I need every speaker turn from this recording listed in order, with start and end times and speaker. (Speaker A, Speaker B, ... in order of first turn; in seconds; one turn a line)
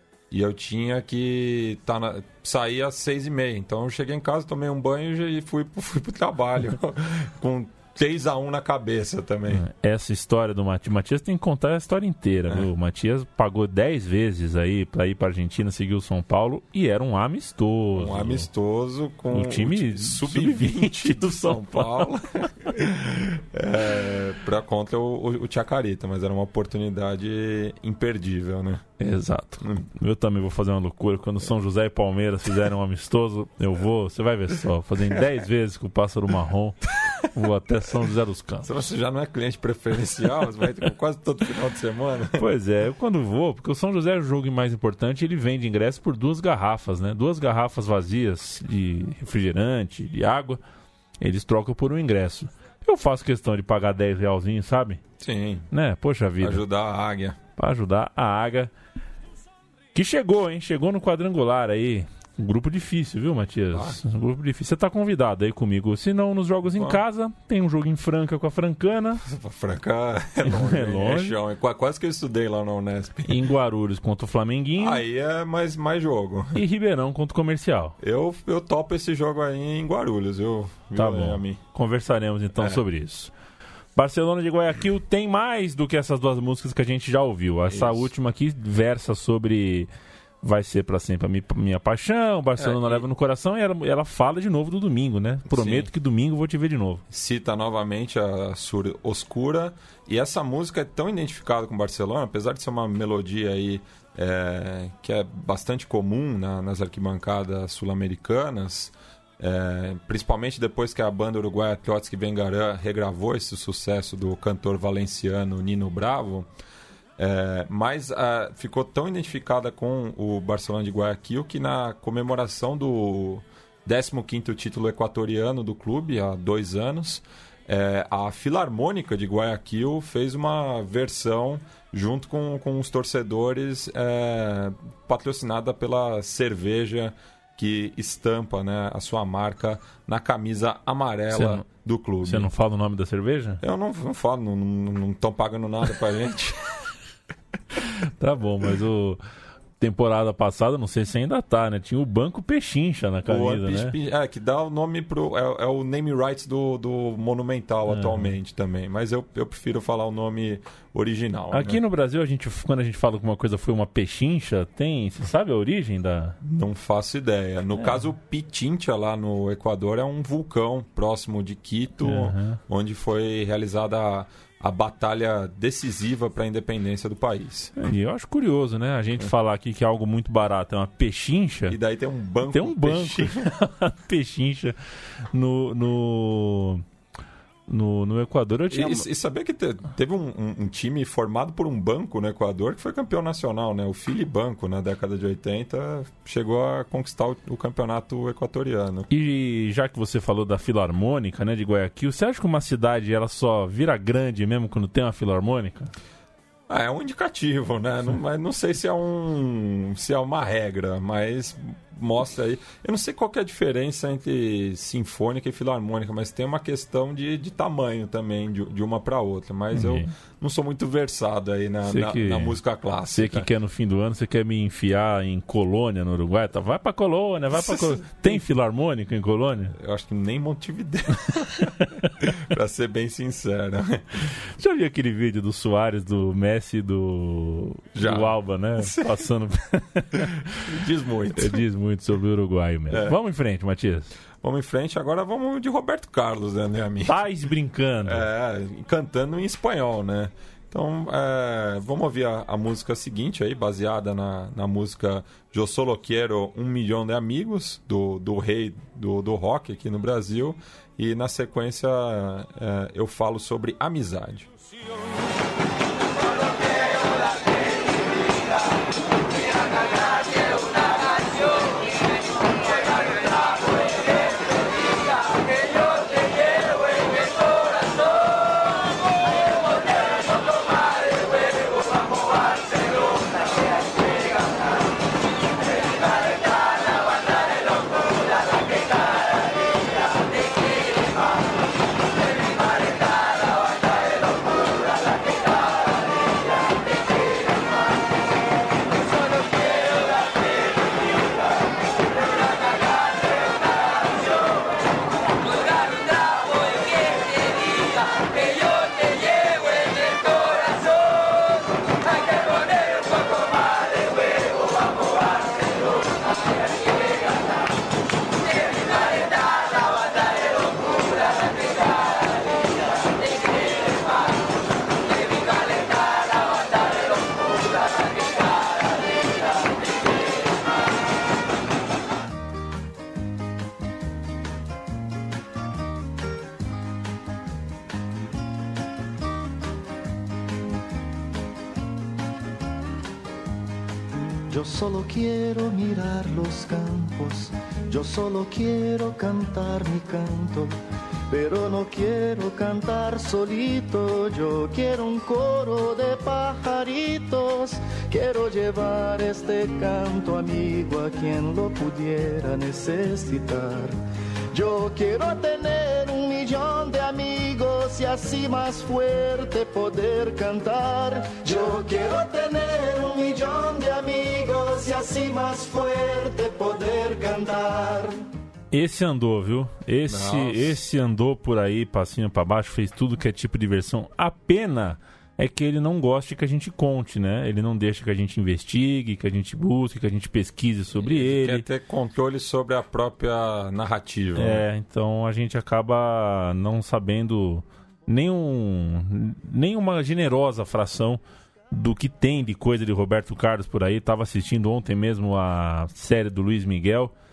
Speaker A: 0.3-9.6
Speaker B: 9.5-18.5
Speaker A: 17.9-28.8
Speaker B: 19.3-22.5
Speaker B: 29.0-38.7
Speaker A: 38.6-42.4
Speaker B: 42.4-50.6
Speaker B: 51.2-55.0
Speaker A: 55.2-55.7
Speaker B: 55.7-56.6
Speaker A: 56.4-57.4
Speaker B: 57.6-58.7
Speaker B: 59.9-69.2
Speaker A: 63.7-64.0
Speaker A: 66.7-67.0
Speaker A: 69.2-73.4
Speaker B: 70.4-71.3
Speaker B: 73.3-75.0
Speaker A: 74.8-76.6
Speaker B: 76.5-78.0
Speaker A: 78.0-81.6
Speaker B: 81.0-83.3
Speaker B: 84.0-89.9
Speaker A: 87.7-88.1
Speaker B: 90.4-97.0
Speaker A: 92.6-93.0
Speaker A: 95.5-95.9
Speaker A: 97.1-116.5
Speaker A: 117.2-142.5
Speaker B: 141.3-141.6
Speaker B: 142.2-143.6
Speaker A: 143.6-146.7
Speaker B: 148.2-149.2
Speaker B: 149.8-153.9
Speaker A: 153.3-161.8
Speaker B: 157.9-158.3
Speaker B: 161.5-166.4
Speaker A: 166.4-177.7
Speaker B: 172.0-172.6
Speaker B: 177.8-181.8
Speaker A: 181.7-183.5
Speaker B: 182.5-184.8
Speaker B: 185.3-186.8
Speaker B: 187.7-189.1
Speaker A: 188.7-199.1
Speaker B: 199.1-205.9
Speaker A: 206.7-223.4
Speaker B: 219.7-220.1
Speaker B: 221.9-222.6
Speaker B: 223.1-229.7
Speaker A: 227.5-228.4
Speaker A: 229.8-234.3
Speaker B: 231.6-232.1
Speaker B: 234.3-240.5
Speaker A: 237.9-239.2
Speaker A: 240.5-241.6
Speaker B: 241.3-244.1
Speaker A: 242.9-243.2
Speaker A: 244.4-247.2
Speaker B: 247.1-248.2
Speaker A: 248.0-264.5
Speaker C: 344.5-350.8
Speaker C: 351.3-364.0
Speaker C: 364.5-378.2
Speaker B: 378.7-391.6
Speaker A: 380.1-380.8
Speaker A: 391.0-394.6
Speaker B: 394.4-407.1